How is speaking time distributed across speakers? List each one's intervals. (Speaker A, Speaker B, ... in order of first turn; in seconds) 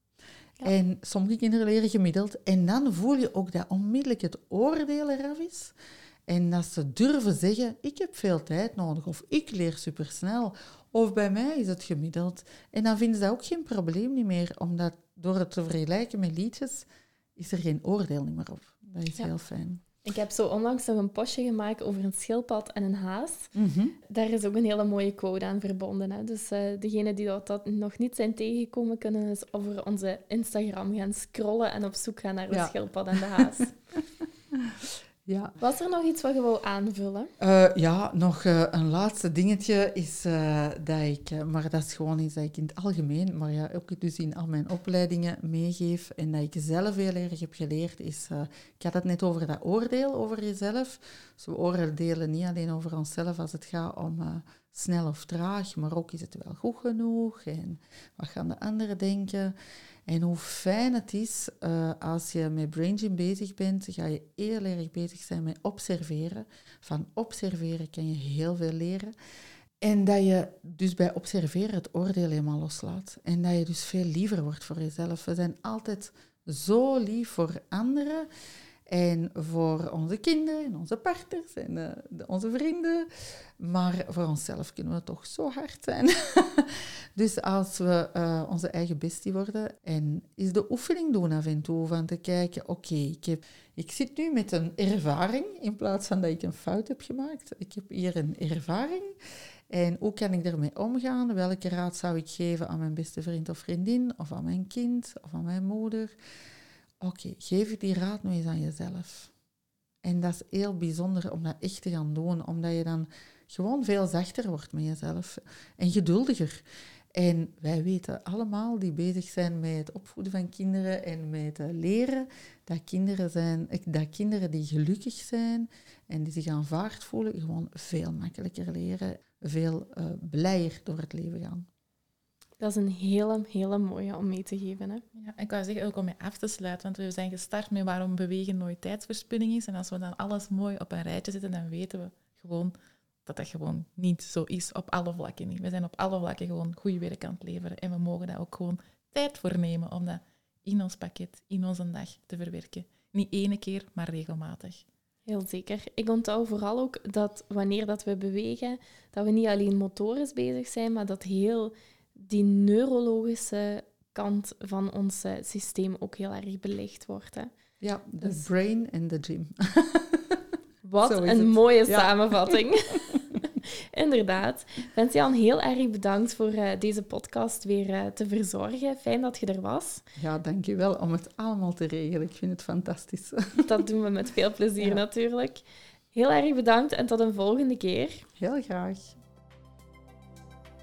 Speaker A: 0.6-5.7, 6.3-19.8, 23.5-23.9, 32.5-33.6, 34.5-35.5, 37.4-59.5, 60.1-69.1, 69.8-78.3, 78.9-99.1, 99.7-106.2, 107.0-109.3, 110.0-116.6, 117.2-131.7, 167.8-170.4, 171.0-172.6, 180.2-183.7, 188.4-189.2
Speaker B: 20.0-23.5, 24.1-33.7, 35.6-37.3, 132.6-135.0, 155.3-167.5, 170.8-173.2, 173.9-180.0, 183.6-188.2
Speaker C: 135.1-142.7, 143.2-154.8